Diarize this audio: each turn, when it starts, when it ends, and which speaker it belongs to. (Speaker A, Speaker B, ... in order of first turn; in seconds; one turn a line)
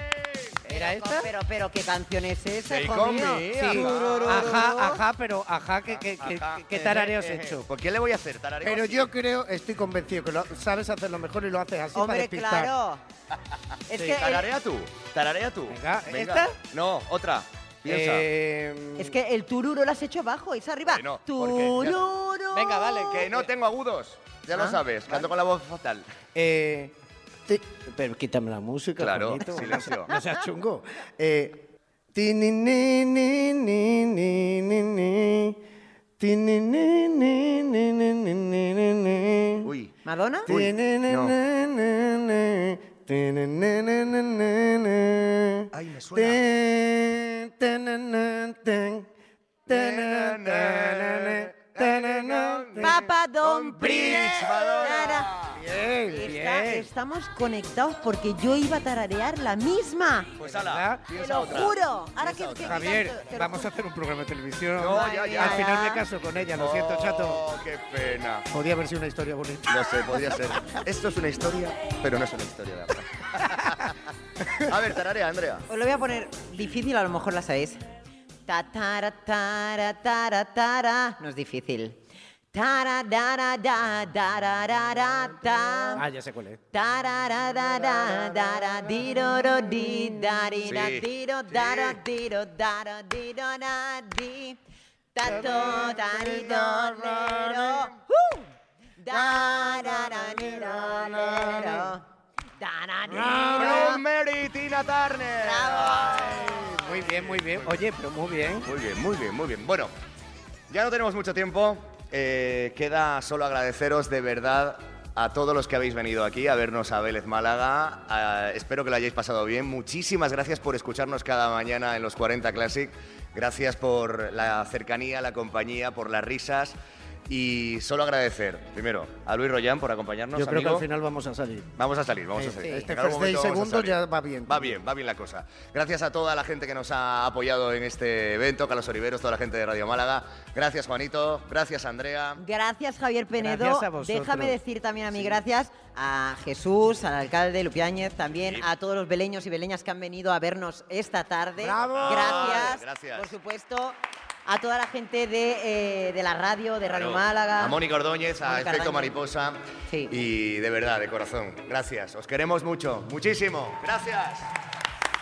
Speaker A: 0.6-1.3
Speaker B: 0.7-5.0
Speaker C: 2.7-4.8
Speaker A: 3.0-7.7
Speaker C: 5.9-9.1
Speaker A: 8.6-12.7
Speaker B: 11.9-13.0
Speaker B: 13.9-14.5
Speaker A: 13.9-14.2
Speaker C: 14.0-18.3
Speaker A: 15.7-16.6
Speaker A: 17.9-19.2
Speaker B: 19.0-23.3
Speaker C: 20.9-22.1
Speaker A: 22.5-23.5
Speaker C: 23.1-26.1
Speaker B: 24.5-24.8
Speaker A: 26.4-26.9
Speaker A: 27.5-35.6
Speaker C: 29.0-30.1
Speaker A: 36.2-39.7
Speaker C: 39.6-39.9
Speaker B: 40.0-40.5
Speaker C: 40.5-41.4
Speaker A: 40.5-49.1
Speaker C: 45.7-46.4
Speaker A: 49.7-53.0
Speaker C: 49.7-55.6
Speaker B: 52.8-55.3
Speaker A: 53.7-56.9
Speaker B: 56.1-60.3
Speaker C: 60.4-63.1
Speaker A: 60.4-61.0
Speaker B: 61.1-63.7
Speaker A: 62.6-67.4
Speaker C: 64.8-65.7
Speaker B: 64.9-66.0
Speaker C: 66.4-68.5
Speaker A: 68.5-70.4
Speaker C: 69.7-74.0
Speaker C: 74.6-75.7
Speaker B: 75.7-77.8
Speaker B: 78.5-82.0
Speaker B: 82.5-86.0
Speaker A: 86.0-86.6
Speaker B: 86.7-94.6
Speaker A: 87.7-90.5
Speaker C: 90.7-92.0
Speaker B: 95.2-102.0
Speaker A: 95.2-97.6
Speaker C: 96.5-97.7
Speaker A: 99.1-101.9
Speaker B: 102.6-104.0
Speaker A: 103.1-104.0
Speaker C: 103.2-107.8
Speaker B: 105.4-106.7
Speaker A: 106.0-108.7
Speaker C: 108.7-109.9
Speaker C: 110.7-126.8
Speaker C: 127.3-130.9
Speaker A: 130.3-131.7
Speaker C: 131.8-133.9
Speaker A: 132.3-134.8
Speaker C: 134.5-142.4
Speaker B: 142.4-157.8
Speaker A: 143.4-144.6
Speaker A: 145.1-145.4
Speaker C: 148.3-148.7
Speaker A: 151.6-152.7
Speaker C: 151.9-153.3
Speaker C: 156.9-159.6
Speaker B: 158.4-159.1
Speaker C: 160.1-164.5